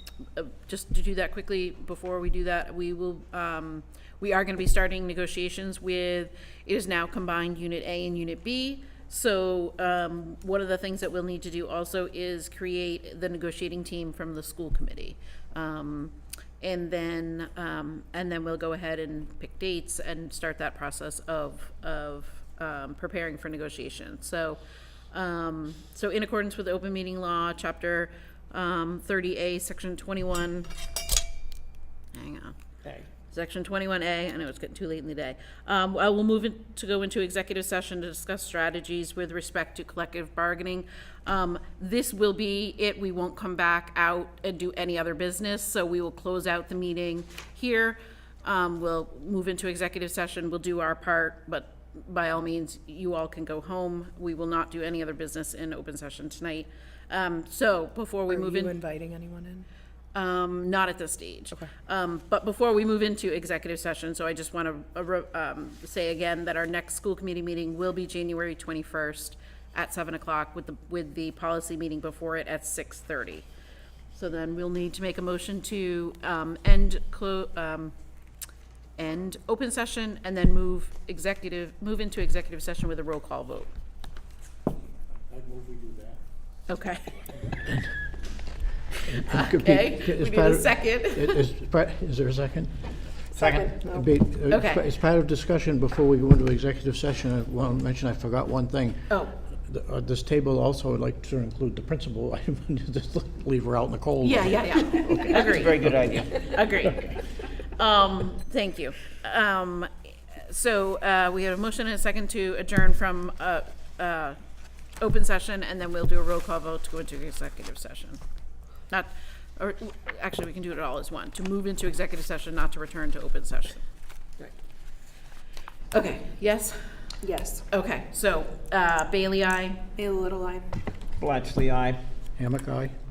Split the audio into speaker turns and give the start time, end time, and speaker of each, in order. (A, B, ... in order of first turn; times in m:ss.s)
0:00.4-0:24.6 A
0:25.1-0:30.7 A
0:32.1-0:32.6 A
0:33.3-0:58.8 A
0:58.3-0:59.7 B
1:00.1-1:13.5 A
1:14.1-1:17.9 A
1:19.0-1:23.7 A
1:25.3-1:26.2 C
1:26.7-1:27.1 A
1:29.0-1:32.7 C
1:29.3-1:31.4 A
1:33.3-1:34.1 B
1:33.4-1:33.7 D
1:33.9-1:39.1 C
1:34.5-1:34.9 A
1:39.7-1:45.6 C
1:44.2-1:49.9 A
1:45.3-1:46.3 D
1:50.5-1:54.4 A
1:55.0-1:58.2 A
1:58.9-2:03.8 A
2:05.9-2:09.9 A
2:07.2-2:07.6 B
2:10.0-2:10.7 B
2:11.2-2:12.0 D
2:12.4-2:12.9 C